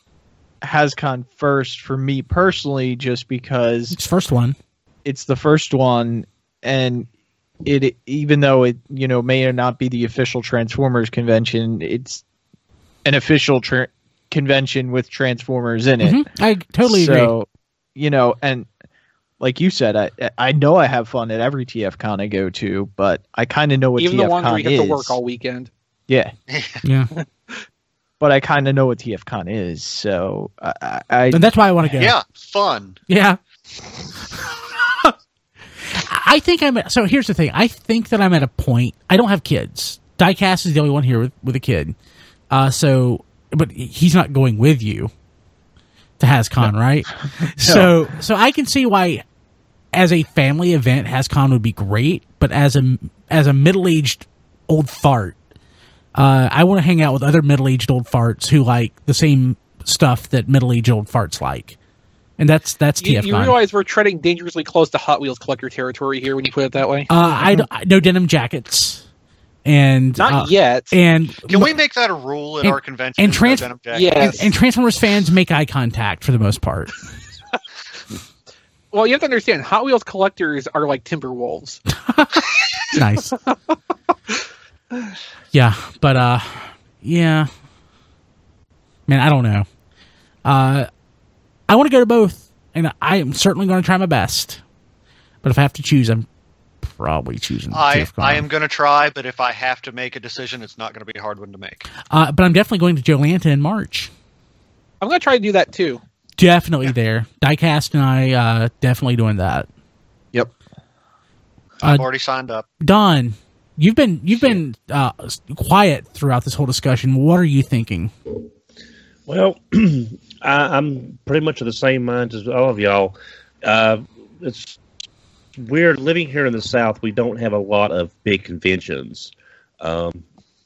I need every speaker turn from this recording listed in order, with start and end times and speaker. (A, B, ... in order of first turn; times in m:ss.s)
0:00.6-0:04.0 A
0:03.9-0:04.6 B
0:05.0-0:07.1 A
0:07.6-0:12.2 A
0:13.0-0:16.3 A
0:16.0-0:17.3 B
0:16.8-0:18.7 A
0:19.4-0:25.2 A
0:24.0-0:25.7 C
0:26.1-0:26.3 A
0:26.5-0:26.8 D
0:26.8-0:27.1 B
0:28.2-0:31.4 A
0:31.3-0:32.2 B
0:31.9-0:33.0 D
0:33.1-0:33.4 B
0:35.9-0:41.9 B
0:42.5-0:45.1 B
0:46.2-0:49.2 B
0:47.4-0:47.9 A
0:49.9-0:55.4 B
0:56.1-1:01.8 B
1:02.4-1:03.6 B
1:03.0-1:07.1 C
1:07.1-1:09.0 B
1:09.6-1:11.7 B
1:10.2-1:10.9 C
1:11.5-1:14.3 D
1:12.6-1:17.0 B
1:13.9-1:14.5 C
1:18.9-1:21.8 C
1:22.0-1:23.4 B
1:25.5-1:27.5 B
1:29.1-1:29.6 B
1:30.4-1:30.9 B
1:31.7-1:34.6 B
1:35.4-1:36.2 B
1:36.8-1:38.5 B
1:37.7-1:41.9 D
1:42.1-1:44.1 B
1:45.0-1:46.0 C
1:46.4-1:49.7 B
1:51.8-1:52.6 D
1:52.8-1:58.1 B
1:59.3-2:04.8 E
2:05.6-2:10.2 E